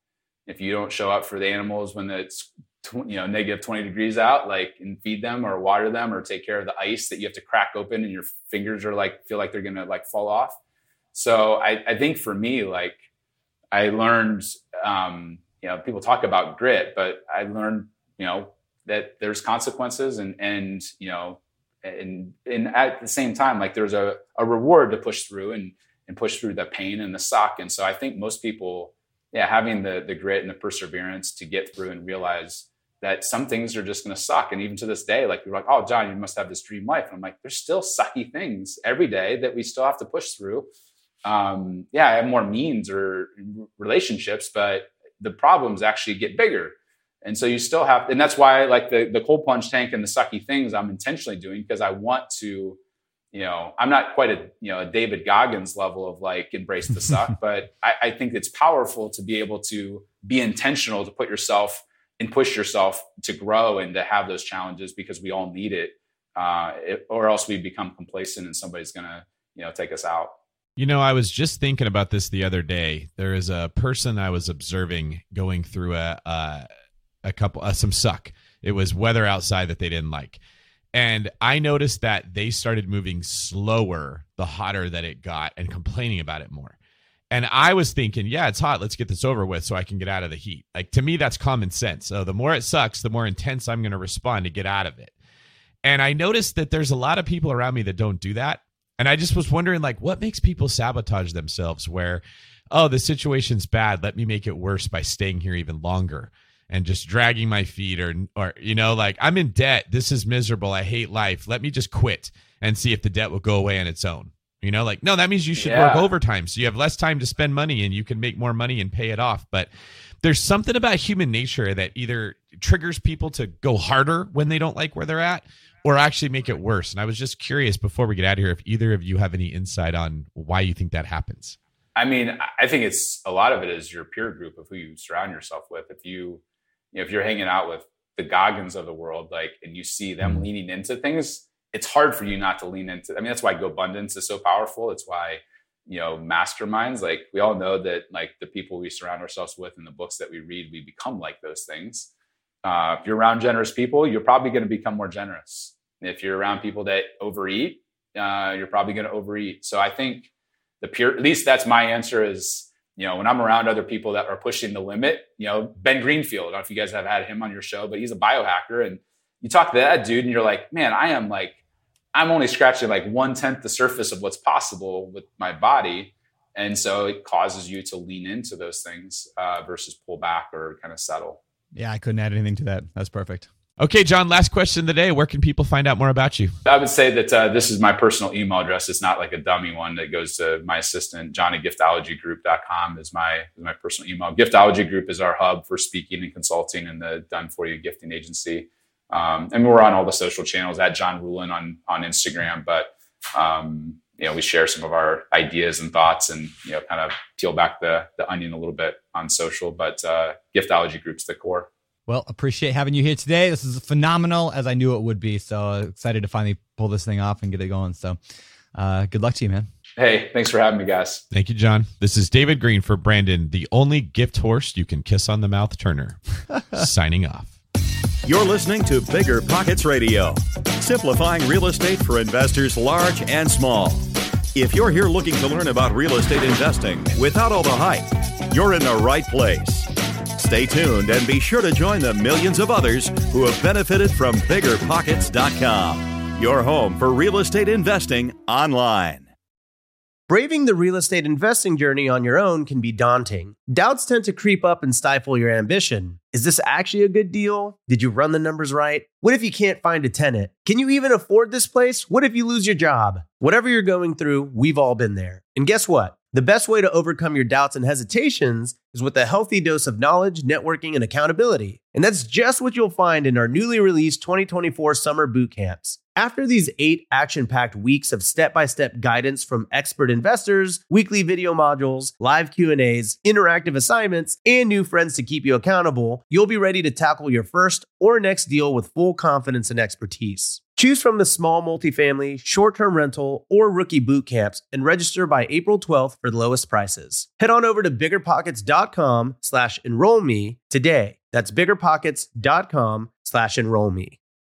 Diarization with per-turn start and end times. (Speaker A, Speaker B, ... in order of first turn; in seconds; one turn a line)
Speaker A: 0.5-10.6
Speaker A: 11.1-13.0
Speaker A: 13.7-40.7
Speaker A: 41.2-52.8
Speaker A: 53.3-70.4
Speaker B: 70.8-76.7
Speaker B: 77.2-80.4
Speaker B: 80.9-86.8
Speaker B: 87.3-95.1
Speaker B: 95.8-119.7
Speaker A: 115.6-116.1
Speaker B: 120.2-131.6
Speaker A: 132.0-136.4
Speaker A: 136.9-152.1
Speaker A: 152.6-160.3
Speaker A: 160.8-171.6
Speaker A: 172.1-181.4
Speaker C: 181.8-183.5
Speaker B: 183.8-186.6
Speaker A: 186.7-211.7
Speaker C: 212.1-218.2
Speaker C: 218.8-219.7
Speaker A: 220.0-221.2
Speaker B: 221.3-227.5
Speaker D: 228.2-249.3
Speaker E: 250.3-304.2